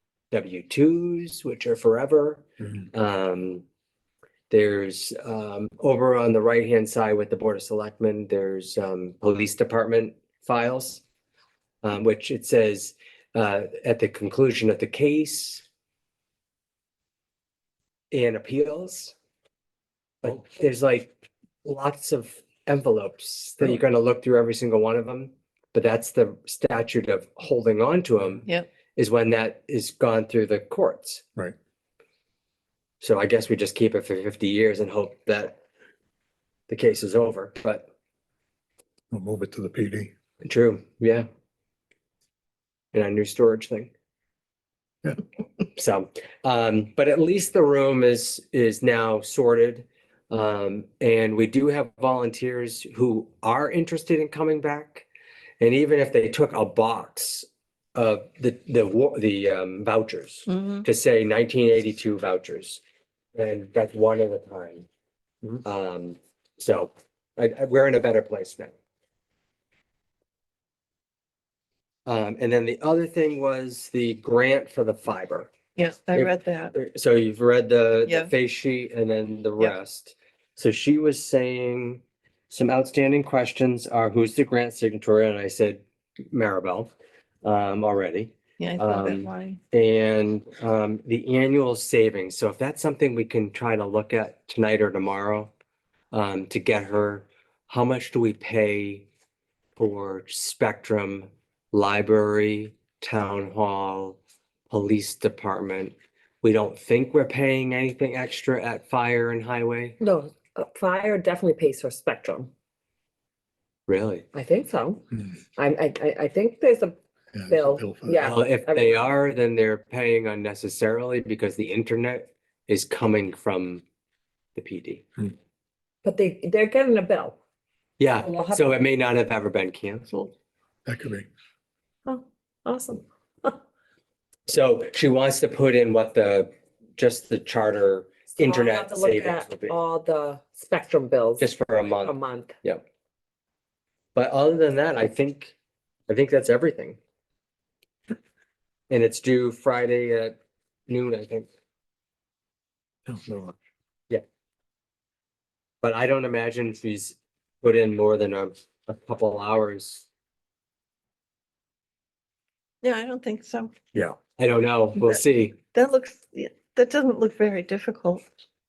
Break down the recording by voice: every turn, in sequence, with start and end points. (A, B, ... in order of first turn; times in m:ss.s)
0:00.3-0:03.6 A
0:04.5-0:11.0 A
0:11.8-0:15.6 A
0:18.1-0:19.1 A
0:20.2-0:31.2 A
0:33.0-0:35.6 A
0:36.7-0:37.9 A
0:39.1-0:40.1 B
0:40.4-0:41.3 A
0:42.9-0:43.9 A
0:45.8-0:55.1 A
0:55.6-1:02.8 A
1:00.5-1:00.9 C
1:03.4-1:04.9 A
1:05.6-1:08.7 A
1:12.1-1:15.5 A
1:15.8-1:16.7 C
1:16.1-1:26.9 A
1:18.1-1:18.3 C
1:27.4-1:35.5 A
1:28.6-1:29.6 C
1:36.1-1:39.1 A
1:39.8-1:44.2 A
1:44.7-1:50.0 A
1:50.0-1:52.5 D
1:53.9-1:54.3 A
1:54.3-1:55.0 D
1:55.6-1:57.0 D
1:57.3-1:58.3 B
1:57.5-1:59.0 D
1:58.2-2:03.8 A
2:04.6-2:05.0 A
2:06.0-2:07.4 D
2:08.0-2:10.3 A
2:08.2-2:08.7 D
2:10.9-2:11.3 B
2:12.1-2:13.6 D
2:14.5-2:19.8 A
2:18.4-2:22.6 D
2:21.4-2:22.8 A
2:24.2-2:25.6 A
2:26.1-2:27.0 A
2:28.9-2:30.4 A
2:30.9-2:31.5 A
2:33.1-2:33.6 B
2:35.8-2:40.1 A
2:42.8-2:43.8 C
2:44.4-2:45.6 A
2:45.0-2:45.2 C
2:45.7-2:48.2 C